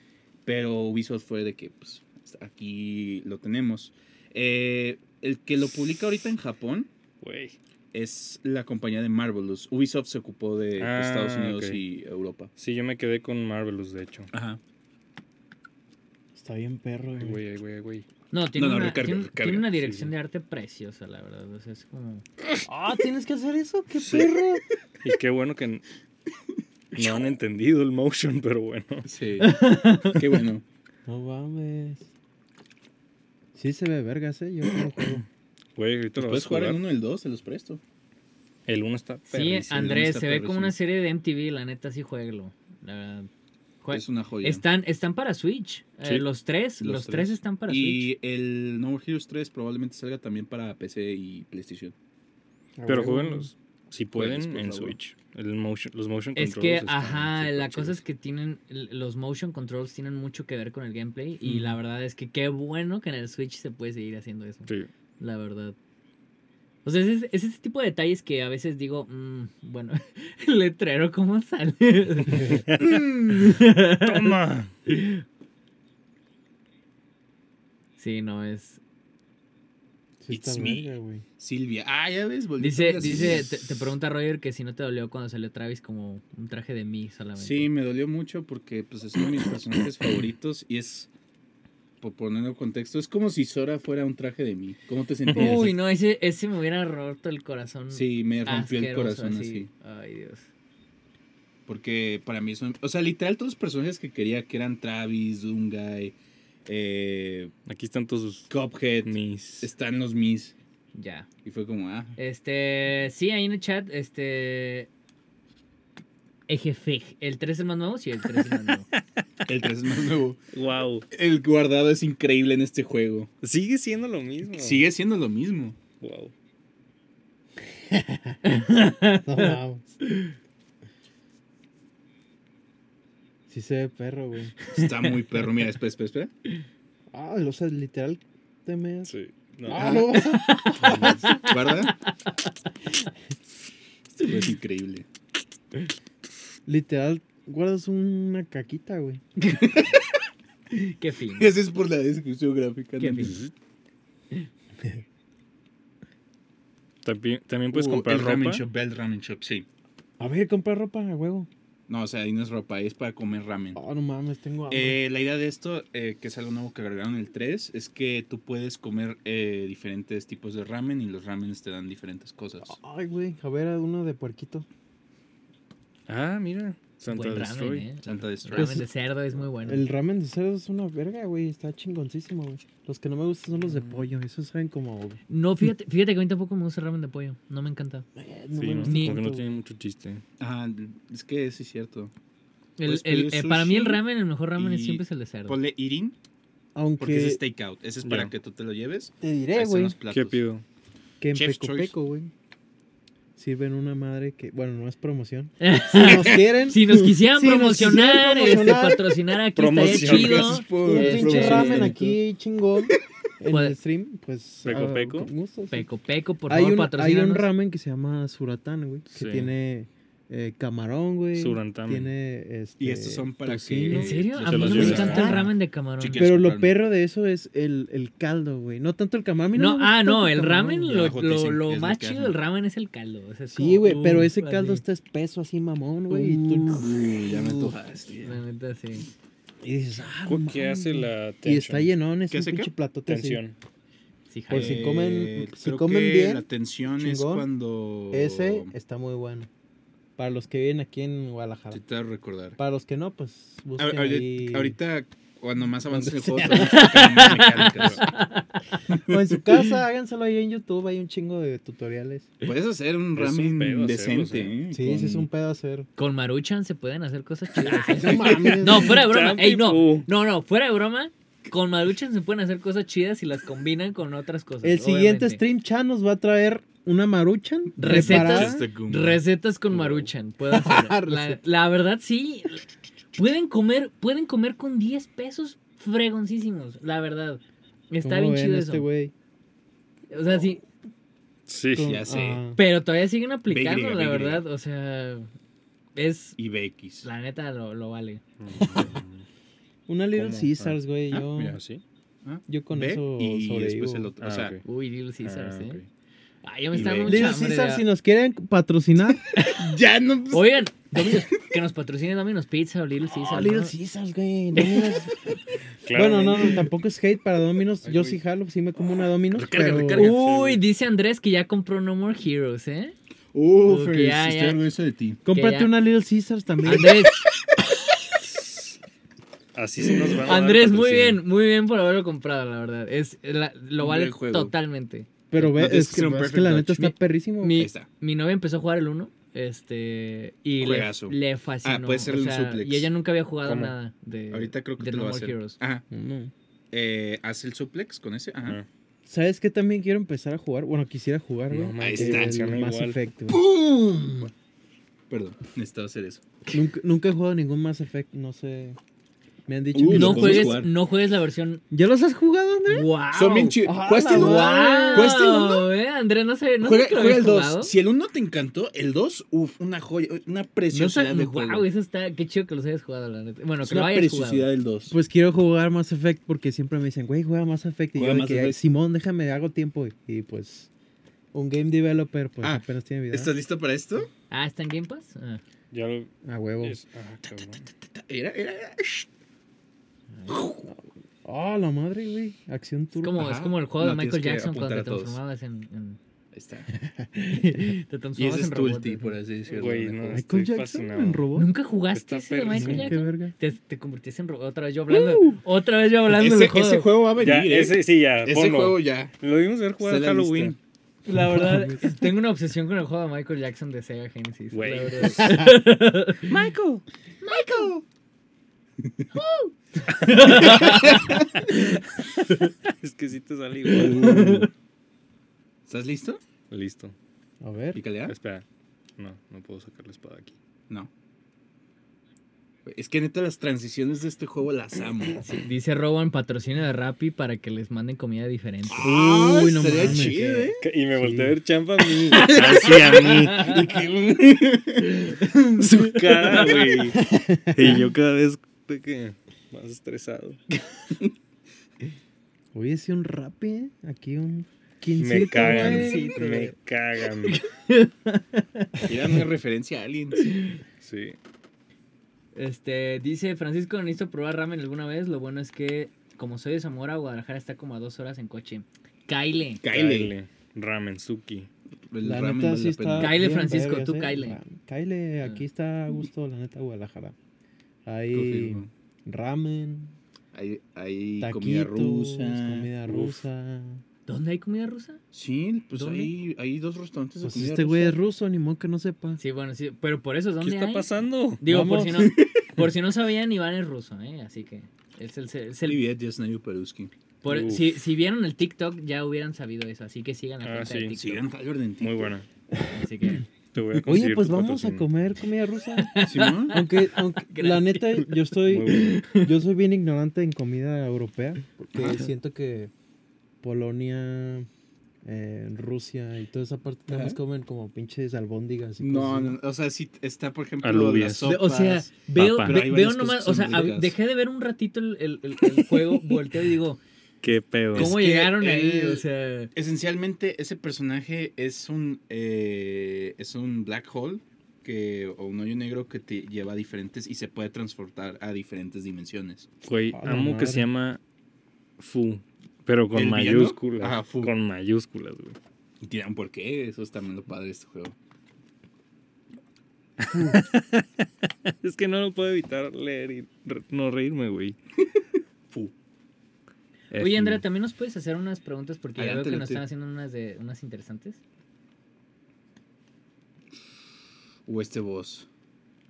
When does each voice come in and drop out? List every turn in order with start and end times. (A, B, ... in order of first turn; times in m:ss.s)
0:00.4-0:06.9 A
0:07.2-0:07.5 B
0:07.9-0:12.5 A
0:10.8-0:11.8 B
0:12.6-0:14.3 B
0:14.3-0:14.6 A
0:16.3-0:17.4 C
0:17.1-0:18.0 B
0:18.3-0:22.2 D
0:18.5-0:19.7 A
0:19.8-0:20.1 B
0:22.6-0:24.6 C
0:24.0-0:24.4 B
0:25.0-0:25.8 B
0:27.0-0:29.1 B
0:29.0-0:30.6 A
0:29.4-0:30.2 D
0:31.0-0:32.1 C
0:33.5-0:35.2 C
0:35.0-0:35.2 B
0:35.8-0:36.8 B
0:36.2-0:37.8 A
0:38.6-0:39.8 B
0:39.3-0:43.3 D
0:39.6-0:40.7 A
0:43.8-0:48.1 D
0:43.9-0:44.6 A
0:46.8-0:51.9 A
0:52.8-0:53.5 C
0:52.8-0:58.0 B
0:54.1-0:55.0 A
0:56.4-1:05.8 D
1:01.4-1:01.8 B
1:06.8-1:15.2 D
1:12.3-1:12.6 C
1:12.5-1:14.7 B
1:12.8-1:13.1 A
1:18.0-1:18.8 D
1:20.2-1:21.2 C
1:20.3-1:23.8 A
1:22.6-1:27.7 D
1:27.4-1:31.1 A
1:32.0-1:35.8 A
1:35.3-1:40.5 D
1:37.9-1:39.7 A
1:41.6-1:47.5 A
1:47.6-1:48.5 B
1:48.5-1:50.5 A
1:49.0-1:49.7 B
1:50.9-1:51.3 D
1:51.4-1:52.2 A
1:52.2-1:54.9 D
1:56.5-1:58.9 D
1:58.3-1:59.0 B
1:59.4-2:00.4 A
2:00.5-2:01.0 B
2:01.1-2:03.3 A
2:03.4-2:04.8 B
2:04.5-2:05.8 A
2:06.0-2:06.3 B
2:07.9-2:08.4 C
2:08.4-2:10.3 D
2:09.2-2:09.8 C
2:13.5-2:14.6 C
2:14.7-2:16.3 A
2:17.1-2:19.1 C
2:19.1-2:20.0 B
2:19.6-2:21.2 C
2:19.8-2:20.1 A
2:20.1-2:22.5 D
2:20.8-2:21.3 B
2:20.8-2:22.0 A
2:24.1-2:25.1 A
2:26.6-2:29.2 C
2:29.4-2:29.8 D
2:29.6-2:30.0 A
2:30.7-2:31.5 D
2:31.4-2:33.4 A
2:33.0-2:33.4 D
2:33.2-2:33.5 B
2:37.0-2:38.6 B
2:37.7-2:39.7 A
2:40.2-2:41.5 C
2:41.9-2:43.8 A
2:43.7-2:45.0 C
2:44.7-2:52.8 A
2:52.6-2:54.6 C
2:56.1-2:57.9 B
2:57.1-2:59.8 D
2:58.0-2:58.8 A
2:58.5-2:58.9 C
2:59.6-3:05.2 C
3:03.6-3:04.0 B
3:05.3-3:08.0 D
3:08.2-3:09.6 C
3:08.6-3:10.2 B
3:08.8-3:09.2 D
3:10.4-3:12.1 A
3:12.8-3:15.6 D
3:12.8-3:14.0 A
3:14.6-3:16.2 A
3:16.7-3:17.4 C
3:17.0-3:20.4 A
3:18.0-3:18.3 B
3:19.2-3:20.0 C
3:20.1-3:20.6 B
3:21.2-3:22.3 C
3:21.3-3:21.9 A
3:23.4-3:29.1 C
3:25.6-3:31.9 D
3:29.5-3:32.2 B
3:29.8-3:32.0 A
3:30.8-3:35.9 C
3:33.5-3:33.8 D
3:34.6-3:35.3 B
3:35.7-3:37.5 D
3:36.5-3:45.4 C
3:39.1-3:39.5 B
3:41.3-3:42.1 B
3:42.8-3:46.8 A
3:43.9-3:46.2 D
3:44.4-3:45.4 B
3:46.2-3:51.0 C
3:49.5-3:54.8 D
3:50.9-3:52.4 A
3:53.5-3:57.7 C
3:56.1-3:56.8 D
3:56.6-3:58.4 A
3:58.2-3:59.1 D
3:59.6-4:03.4 C
4:00.2-4:01.9 B
4:02.3-4:02.7 A
4:03.0-4:03.5 B
4:04.3-4:04.9 D
4:04.5-4:07.5 C
4:04.5-4:08.7 A
4:08.1-4:09.5 C
4:10.2-4:11.8 C
4:11.7-4:12.6 A
4:12.6-4:14.8 C
4:13.8-4:18.1 A
4:15.9-4:17.3 C
4:16.5-4:18.6 D
4:18.9-4:19.1 A
4:19.0-4:22.3 C
4:22.4-4:25.3 A
4:23.1-4:24.5 B
4:24.7-4:25.9 C
4:26.0-4:35.4 D
4:27.6-4:29.0 C
4:28.0-4:30.1 B
4:34.6-4:38.6 C
4:37.8-4:48.9 D
4:37.8-4:39.2 A
4:39.7-4:40.1 B
4:40.5-4:41.4 C
4:48.0-4:49.1 C
4:50.1-4:50.6 D
4:51.5-4:52.0 B
4:51.7-4:52.6 C
4:51.8-4:52.4 A
4:52.5-4:55.3 D
4:53.5-4:54.4 A
4:56.0-4:56.4 D
4:56.4-4:57.1 A
4:57.0-4:58.2 D
4:58.4-4:59.2 B
4:59.9-5:01.6 C
5:00.2-5:00.8 B
5:01.2-5:01.6 A
5:01.4-5:01.8 B
5:02.2-5:04.6 A
5:02.5-5:04.1 C
5:04.2-5:04.6 B
5:04.6-5:05.8 D
5:05.2-5:05.8 B
5:06.4-5:07.8 D
5:06.7-5:07.4 A
5:07.0-5:09.2 C
5:09.3-5:09.7 D
5:09.4-5:11.2 A
5:10.3-5:13.7 D
5:13.1-5:15.3 C
5:14.6-5:14.9 D
5:15.8-5:16.7 B
5:15.9-5:20.1 C
5:17.8-5:18.2 B
5:19.3-5:20.2 A
5:19.8-5:20.6 B
5:19.9-5:22.9 D
5:23.3-5:25.2 A
5:23.6-5:24.6 D
5:25.2-5:26.9 C
5:25.3-5:25.7 D
5:26.6-5:27.2 D
5:29.5-5:31.2 B
5:30.2-5:35.1 D
5:33.8-5:34.5 A
5:35.3-5:37.6 C
5:35.3-5:37.0 A
5:37.4-5:45.6 D
5:37.5-5:37.9 A
5:40.6-5:42.9 A
5:43.4-5:43.7 B
5:44.3-5:45.8 A
5:45.9-5:46.3 C
5:46.7-5:48.6 A
5:49.0-5:53.4 C
5:51.5-5:53.0 B
5:51.8-5:52.4 A
5:53.3-5:54.3 A
5:55.1-5:56.2 A
5:56.5-5:58.8 C
5:59.5-6:00.6 C
5:59.7-6:00.7 A
5:59.9-6:01.6 D
6:01.7-6:02.9 C
6:02.7-6:07.7 D
6:03.1-6:05.7 A
6:03.6-6:05.2 C
6:06.6-6:11.7 A
6:10.7-6:14.5 D
6:13.6-6:14.9 A
6:14.9-6:20.7 C
6:18.0-6:18.6 A
6:21.3-6:23.3 C
6:22.4-6:24.1 A
6:24.3-6:25.4 D
6:25.7-6:27.7 B
6:26.2-6:26.8 C
6:27.3-6:29.1 A
6:30.3-6:30.6 A
6:30.6-6:33.2 C
6:33.0-6:36.0 D
6:33.1-6:35.2 A
6:36.3-6:36.7 A
6:37.2-6:39.2 D
6:38.2-6:40.2 A
6:39.5-6:41.2 B
6:40.1-6:41.5 C
6:41.3-6:46.9 D
6:41.9-6:42.9 B
6:42.5-6:43.3 C
6:44.9-6:45.4 A
6:46.1-6:49.1 A
6:47.2-6:50.6 B
6:49.8-6:50.6 A
6:51.0-6:56.3 D
6:51.1-6:52.1 C
6:54.5-6:55.5 B
6:56.3-6:56.8 B
6:57.2-6:57.7 D
6:57.3-6:57.8 A
6:59.1-7:02.5 D
7:00.3-7:01.2 A
7:02.6-7:04.3 B
7:03.7-7:04.5 D
7:03.7-7:04.5 A
7:05.7-7:06.2 A
7:06.5-7:06.9 B
7:07.4-7:07.8 C
7:07.7-7:08.2 A
7:08.1-7:08.4 B
7:09.0-7:10.4 B
7:12.6-7:15.2 A
7:15.2-7:18.9 D
7:18.7-7:20.6 A
7:18.7-7:21.4 C
7:19.9-7:23.6 B
7:22.1-7:23.6 D
7:23.0-7:25.3 A
7:25.1-7:25.6 D
7:25.6-7:27.0 B
7:26.9-7:27.9 C
7:27.5-7:30.4 B
7:32.5-7:36.5 C
7:35.0-7:37.4 B
7:35.4-7:36.3 D
7:37.3-7:38.9 D
7:38.8-7:40.3 A
7:40.2-7:40.6 D
7:40.8-7:41.2 B
7:42.3-7:49.6 D
7:49.6-7:50.1 A
7:49.7-7:51.5 B
7:51.9-7:53.2 A
7:52.0-7:57.1 C
7:53.0-7:54.4 D
7:57.8-7:59.9 C
7:58.1-7:58.7 A
8:00.3-8:02.7 A
8:01.2-8:03.8 C
8:02.9-8:03.2 B
8:04.1-8:05.0 D
8:05.1-8:08.0 A
8:05.7-8:06.1 D
8:07.2-8:09.2 C
8:09.2-8:15.8 D
8:10.4-8:11.4 B
8:11.4-8:12.2 C
8:11.9-8:12.5 A
8:15.6-8:16.9 A
8:17.2-8:21.2 D
8:17.2-8:17.8 B
8:20.4-8:21.0 B
8:20.9-8:22.1 A
8:21.8-8:22.2 B
8:22.5-8:23.1 C
8:22.7-8:23.2 D
8:23.5-8:24.8 B
8:23.8-8:32.7 C
8:25.7-8:29.3 D
8:26.0-8:26.6 A
8:28.4-8:29.0 B
8:31.7-8:32.1 A
8:33.4-8:34.5 C
8:35.0-8:39.4 C
8:36.9-8:37.2 A
8:38.8-8:44.0 A
8:40.6-8:41.4 B
8:41.2-8:46.8 D
8:42.1-8:42.6 B
8:47.2-8:47.9 B
8:47.7-8:49.0 A
8:47.7-8:49.5 D
8:49.5-8:59.5 A
8:59.6-9:01.0 B
8:59.9-9:00.7 C
9:01.8-9:05.4 B
9:02.9-9:04.3 A
9:05.8-9:07.9 A
9:10.0-9:14.6 B
9:10.1-9:10.4 C
9:16.9-9:17.4 B
9:16.9-9:21.2 D
9:19.0-9:19.6 A
9:24.4-9:25.3 A